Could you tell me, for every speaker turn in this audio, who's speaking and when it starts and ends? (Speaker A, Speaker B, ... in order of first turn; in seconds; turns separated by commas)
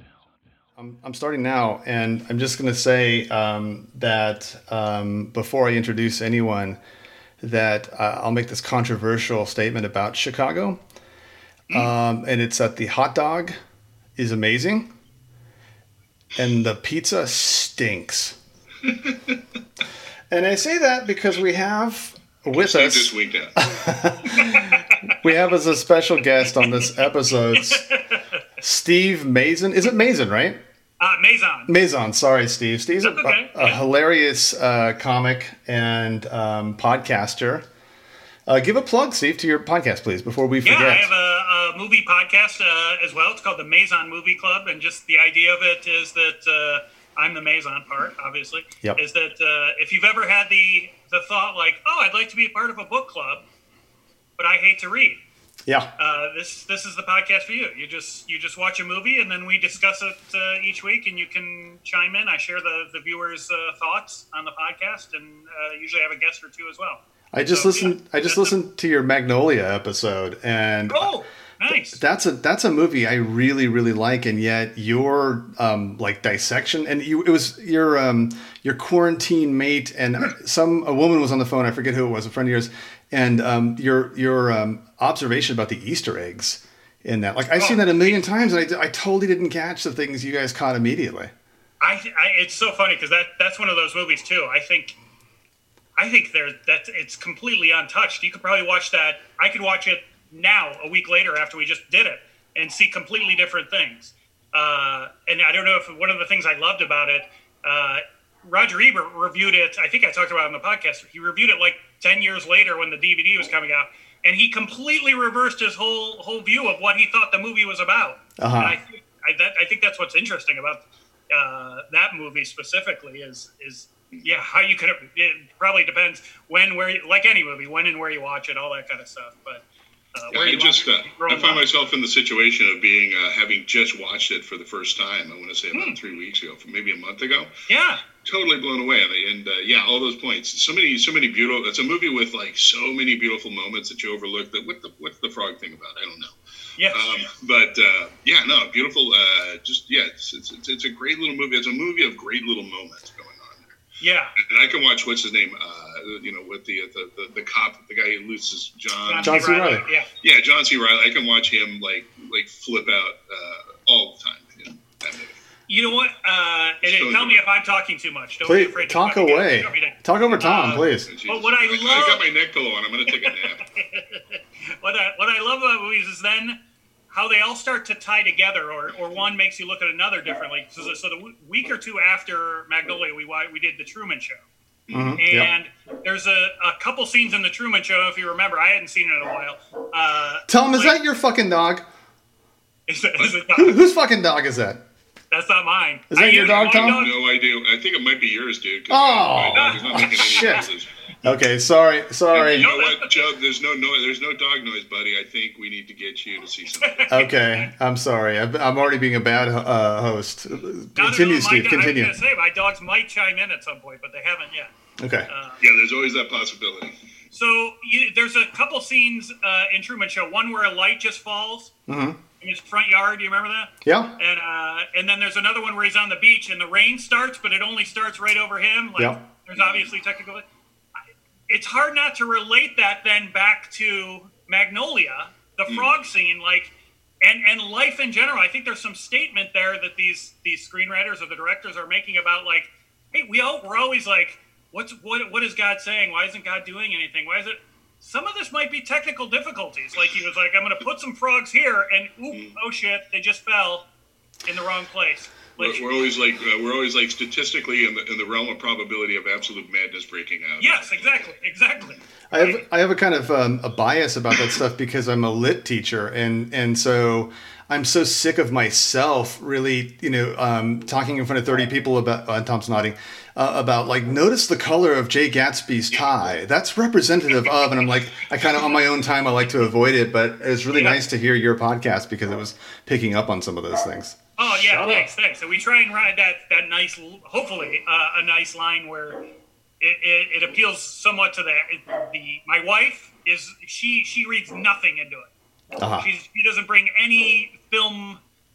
Speaker A: 0.8-6.8, Speaker A: 7.4-10.8, Speaker A: 11.7-13.6, Speaker A: 14.2-14.9, Speaker A: 16.4-18.4, Speaker B: 18.9-19.4, Speaker A: 20.3-27.8, Speaker B: 22.5-23.6, Speaker C: 24.4-25.1, Speaker C: 27.6-28.4, Speaker A: 28.6-30.6, Speaker C: 31.0-31.7, Speaker A: 31.7-37.7, Speaker C: 33.0-33.8, Speaker A: 38.5-41.1, Speaker C: 40.6-53.5, Speaker C: 54.4-55.2, Speaker A: 55.7-55.9, Speaker C: 56.0-68.6, Speaker A: 67.3-71.1, Speaker C: 70.9-72.0, Speaker A: 71.7-91.3, Speaker C: 87.5-88.2, Speaker C: 91.8-95.0, Speaker C: 96.0-129.6, Speaker A: 118.4-118.8, Speaker C: 130.2-131.7, Speaker B: 130.3-137.5, Speaker C: 137.7-138.0, Speaker B: 138.2-146.3, Speaker C: 146.8-147.3, Speaker B: 146.9-153.8, Speaker C: 154.0-154.3, Speaker B: 154.4-165.4, Speaker C: 159.1-160.1, Speaker A: 159.2-159.8, Speaker C: 165.7-172.2, Speaker B: 166.8-167.4, Speaker A: 168.4-171.1, Speaker B: 170.8-173.6, Speaker C: 173.2-176.6, Speaker C: 177.1-184.4, Speaker B: 184.9-185.2, Speaker A: 184.9-185.5, Speaker C: 185.2-191.0, Speaker A: 190.5-191.8, Speaker C: 192.9-193.8, Speaker A: 193.5-194.8, Speaker C: 195.3-197.1, Speaker A: 196.1-197.1, Speaker B: 196.4-200.9, Speaker A: 198.9-200.7, Speaker C: 199.5-200.7, Speaker A: 201.2-202.7, Speaker B: 202.3-207.2, Speaker C: 202.4-203.3, Speaker C: 206.8-207.7, Speaker A: 207.1-212.1, Speaker C: 211.0-214.7, Speaker A: 215.0-215.3, Speaker C: 215.3-215.6, Speaker B: 215.6-216.9, Speaker C: 217.3-221.7, Speaker A: 221.9-222.2, Speaker C: 222.4-230.5, Speaker A: 223.8-224.2, Speaker A: 229.0-229.3, Speaker C: 231.5-253.9, Speaker B: 235.7-235.9, Speaker C: 254.5-255.8, Speaker B: 255.6-261.3, Speaker C: 260.6-262.6, Speaker A: 262.3-284.2, Speaker C: 280.7-281.0, Speaker C: 284.4-289.2, Speaker A: 284.7-285.1, Speaker C: 289.8-295.3, Speaker A: 295.8-296.1, Speaker C: 296.0-298.2